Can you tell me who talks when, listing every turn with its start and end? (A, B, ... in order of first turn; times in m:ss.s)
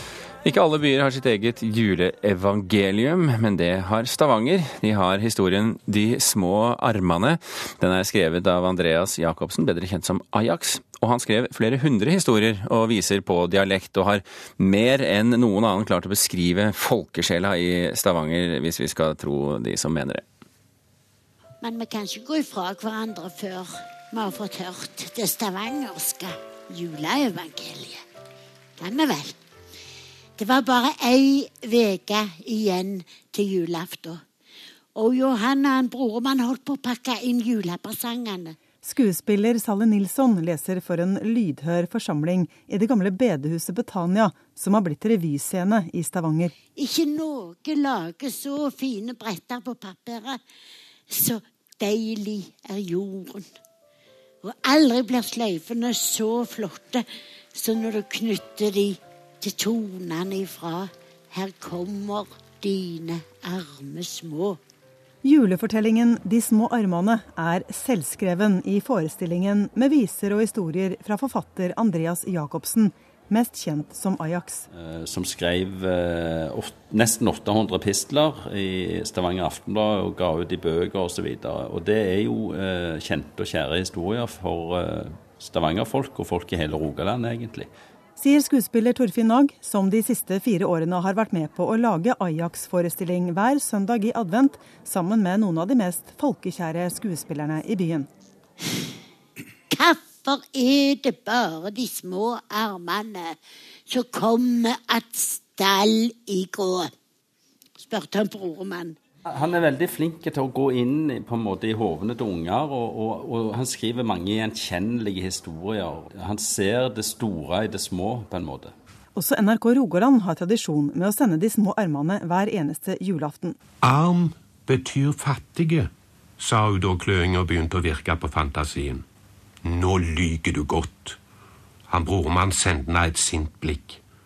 0:00.4-0:20.2 A
0:21.6-0:28.0 B
0:28.8-0:29.4 B
0:30.4-0:34.2 B
0:35.0-0:38.6 B
0:38.8-0:46.6 C
0:46.8-0:50.4 B
0:51.1-0:53.5 B
0:54.4-1:04.6 B
1:05.2-1:14.6 C
1:14.7-1:27.7 D
1:28.2-1:38.1 C
1:39.7-1:46.9 B
1:47.8-1:49.0 B
1:49.3-1:58.7 D
1:59.2-2:03.6 C
2:03.8-2:09.0 E
2:09.6-2:11.2 E
2:11.9-2:14.0 E